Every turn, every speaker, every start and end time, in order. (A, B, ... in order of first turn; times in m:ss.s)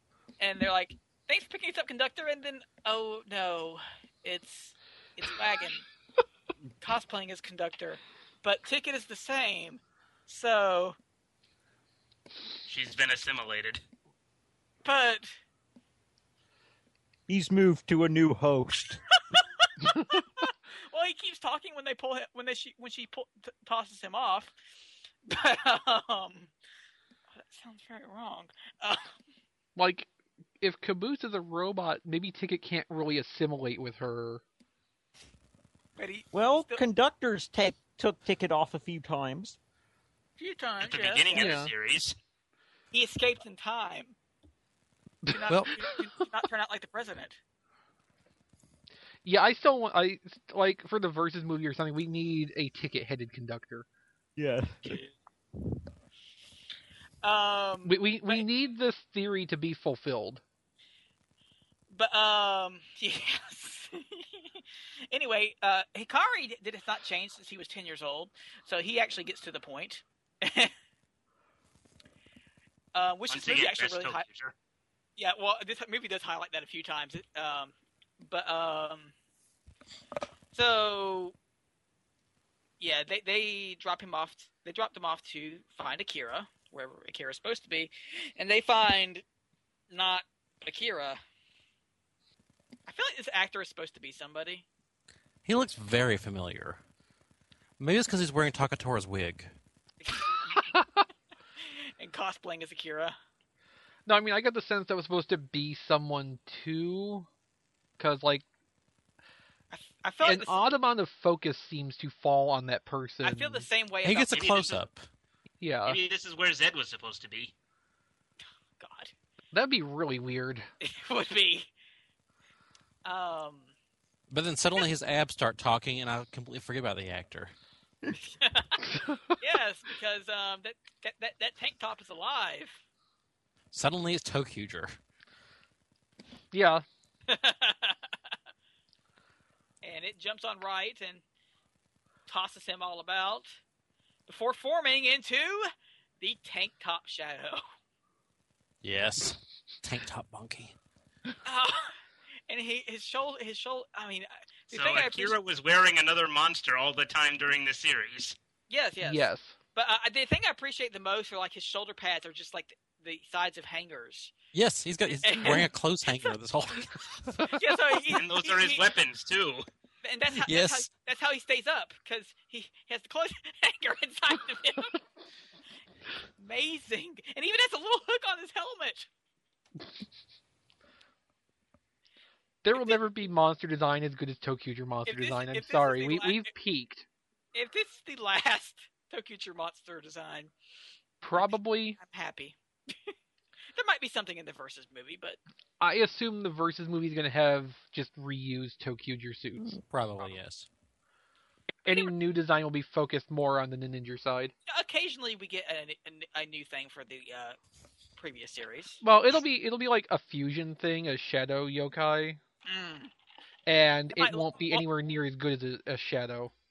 0:00.4-0:05.8 A
0:06.8-0:11.0 A
0:12.7-0:13.8 B
0:14.8-0:15.3 A
0:17.3-0:19.0 C
0:19.3-0:24.5 A
0:25.3-0:26.5 A
0:27.3-0:29.2 A
0:29.8-0:34.4 D
0:36.0-0:36.8 A
0:36.3-0:39.6 C
0:40.4-0:41.6 A
0:40.8-0:42.2 B
0:41.4-0:41.7 D
0:42.9-0:44.2 A
0:45.3-0:47.4 A
0:45.5-0:45.7 E
0:49.2-0:53.9 D
0:54.4-0:55.0 C
0:54.8-0:55.1 A
0:57.2-0:58.5 A
0:57.8-1:00.4 D
1:01.9-1:10.7 A
1:12.9-1:14.2 A
1:13.3-1:14.5 B
1:15.2-1:19.1 A
1:20.5-1:21.3 A
1:22.8-1:29.2 A
1:29.9-1:31.2 A
1:32.9-1:34.7 A
1:35.4-1:36.8 E
1:37.8-1:39.5 E
1:40.0-1:40.7 A
1:41.6-1:43.2 A
1:44.1-1:47.3 D
1:48.0-1:48.4 D
1:49.7-1:50.6 A
1:50.2-1:53.7 D
1:53.2-1:54.8 A
1:54.0-1:55.0 E
1:54.3-1:54.8 B
1:55.6-1:56.0 D
1:55.9-1:57.5 B
1:58.8-1:59.1 A
1:59.5-2:00.7 D
2:00.8-2:01.7 A
2:03.0-2:03.7 A
2:04.3-2:07.5 E
2:08.2-2:08.9 A
2:09.4-2:12.8 A
2:13.7-2:15.0 E
2:16.5-2:16.8 D
2:17.3-2:18.2 A
2:19.8-2:21.2 A
2:22.3-2:23.6 A
2:24.3-2:25.7 A
2:26.2-2:27.6 A
2:28.8-2:30.8 E
2:31.4-2:35.4 A
2:34.7-2:38.4 B
2:38.7-2:44.3 A
2:39.0-2:39.6 D
2:44.5-2:47.6 E
2:45.1-2:46.3 A
2:47.5-2:48.9 A
2:48.1-2:49.6 B
2:50.0-2:55.0 A
2:50.4-2:50.9 E
2:56.4-2:59.1 A
3:02.6-3:07.0 D
3:05.1-3:06.5 A
3:07.5-3:10.5 A
3:11.2-3:12.0 D
3:11.4-3:13.1 A
3:13.8-3:15.4 A
3:15.8-3:19.8 D
3:19.8-3:20.7 E
3:21.8-3:24.5 D
3:24.7-3:27.6 A
3:28.2-3:29.0 A
3:29.0-3:32.4 D
3:32.7-3:33.1 A
3:33.7-3:36.5 D
3:34.1-3:34.9 A